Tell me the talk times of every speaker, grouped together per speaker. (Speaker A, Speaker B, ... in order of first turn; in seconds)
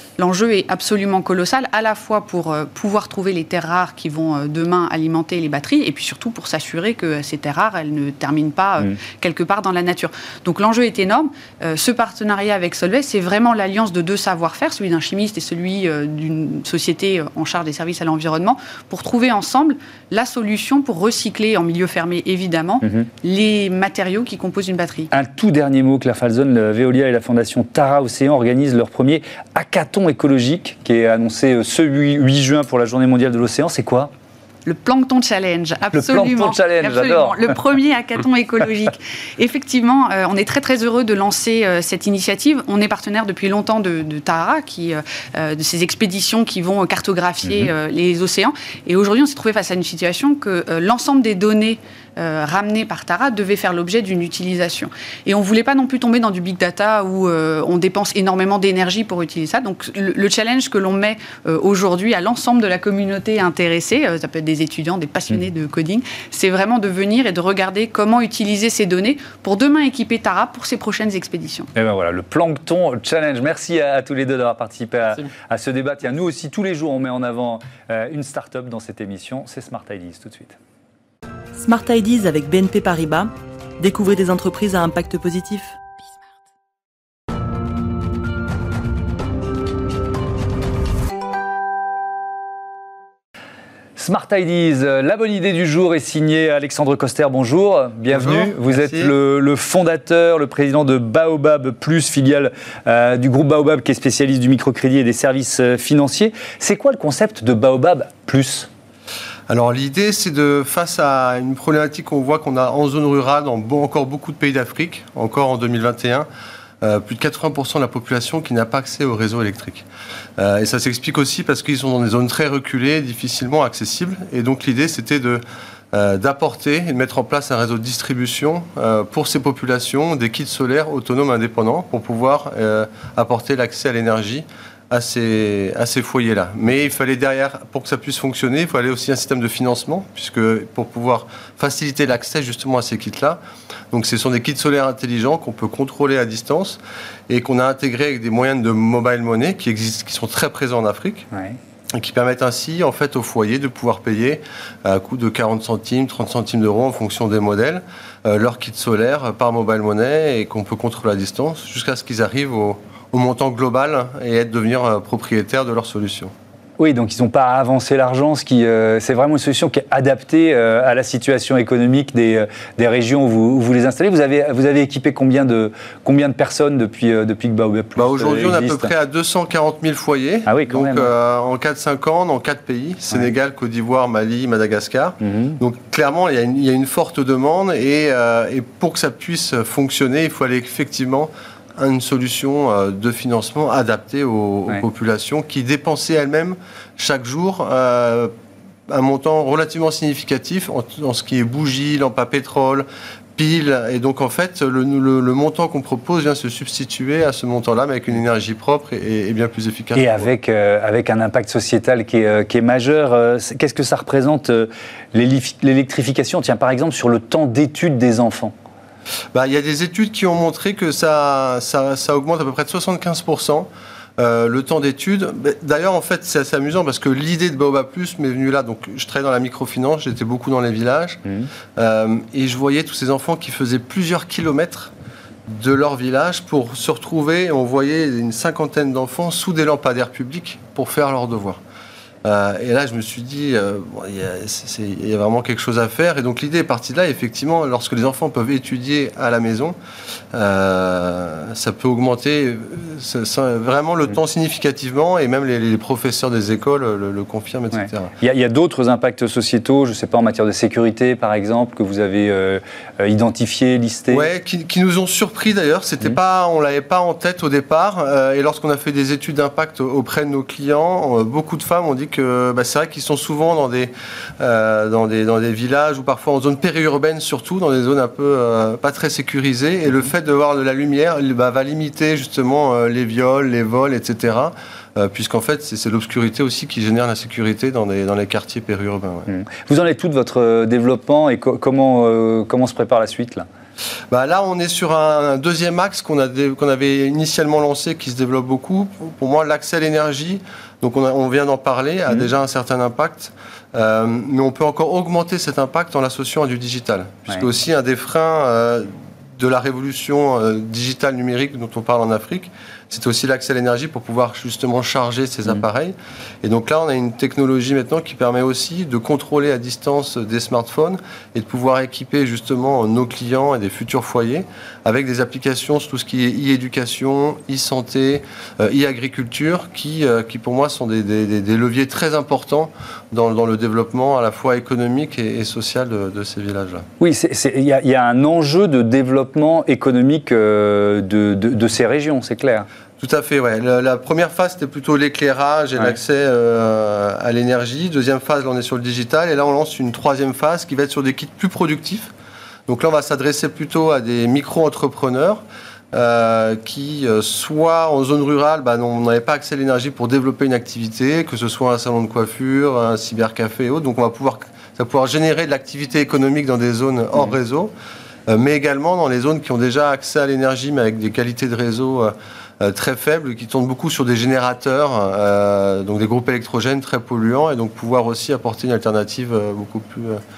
Speaker A: 0.2-25.1, 34.7-71.7
Speaker B: 22.8-23.1, 25.1-34.1, 35.9-37.4, 71.8-80.6, 94.0-108.7, 151.3-151.6, 166.8-178.9, 180.5-181.1, 185.2-185.6, 209.9-218.5, 257.8-264.3, 289.3-293.5, 337.0-342.7
Speaker C: 81.6-85.8
Speaker D: 98.1-99.1, 109.5-116.3, 116.8-119.8, 120.4-143.4, 143.9-151.3, 151.9-166.3, 178.0-198.3, 198.9-210.3, 219.3-231.2, 231.8-234.9, 235.5-241.6, 242.2-249.8, 250.3-258.1, 264.1-289.3, 294.1-336.9, 343.0-352.1, 352.7-367.7, 368.3-380.2